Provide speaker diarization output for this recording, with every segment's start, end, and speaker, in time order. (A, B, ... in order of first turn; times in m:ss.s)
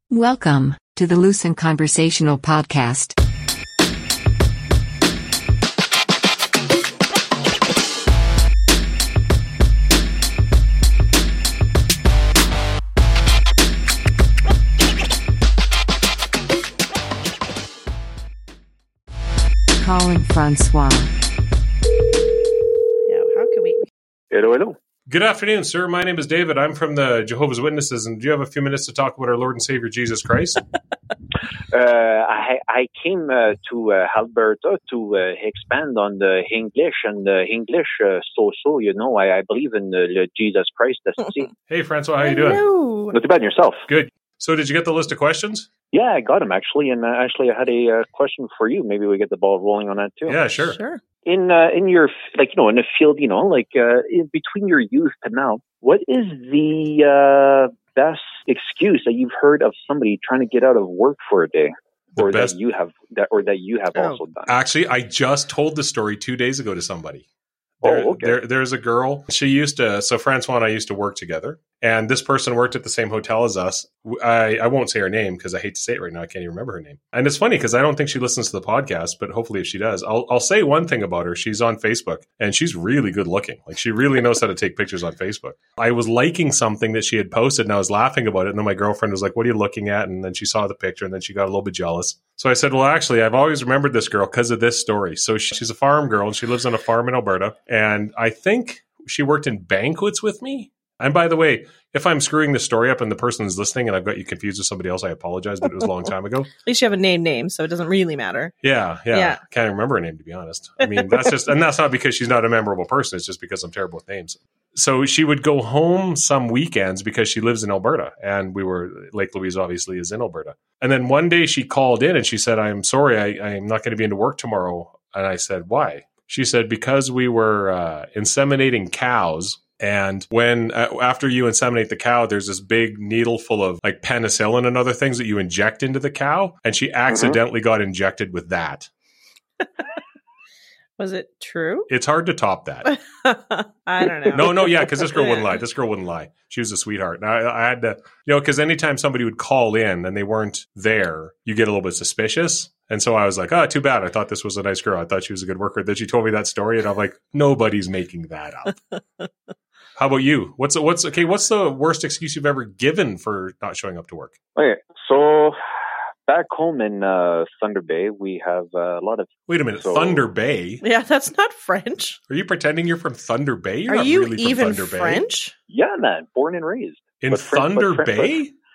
0:00.1-0:03.2 A
0:19.8-0:21.1 A
0:23.1-0:23.9 B
0:24.3-0:24.8 C
0:25.1-0:30.6 D
0:31.7-0:41.5 C
0:41.7-0:42.6 D
0:42.2-0:43.2 B
0:43.1-0:43.9 C
0:43.9-0:45.7 D
0:45.9-0:50.4 C
0:50.3-0:50.8 D
0:50.6-0:51.0 B
0:51.2-1:04.5 C
1:02.2-1:02.6 D
1:04.0-1:04.2 B
1:04.5-1:07.2 D
1:07.8-1:46.5 D
1:07.8-1:08.4 C
1:46.6-1:48.5 B
1:48.6-2:18.9 D
1:49.1-1:49.4 B
1:50.8-1:51.5 B
2:17.1-2:17.4 C
2:21.0-2:21.9 B
2:21.9-2:22.9 D
2:22.8-2:25.6 B
2:24.3-2:38.8 D
2:40.0-2:44.4 D
2:44.6-2:45.6 C
2:46.3-2:49.3 C
2:49.5-2:50.8 D
2:49.8-2:50.2 C
2:50.8-2:52.2 B
2:52.3-2:55.3 D
2:53.9-2:55.6 B
2:55.7-2:58.4 C
2:57.2-2:58.5 D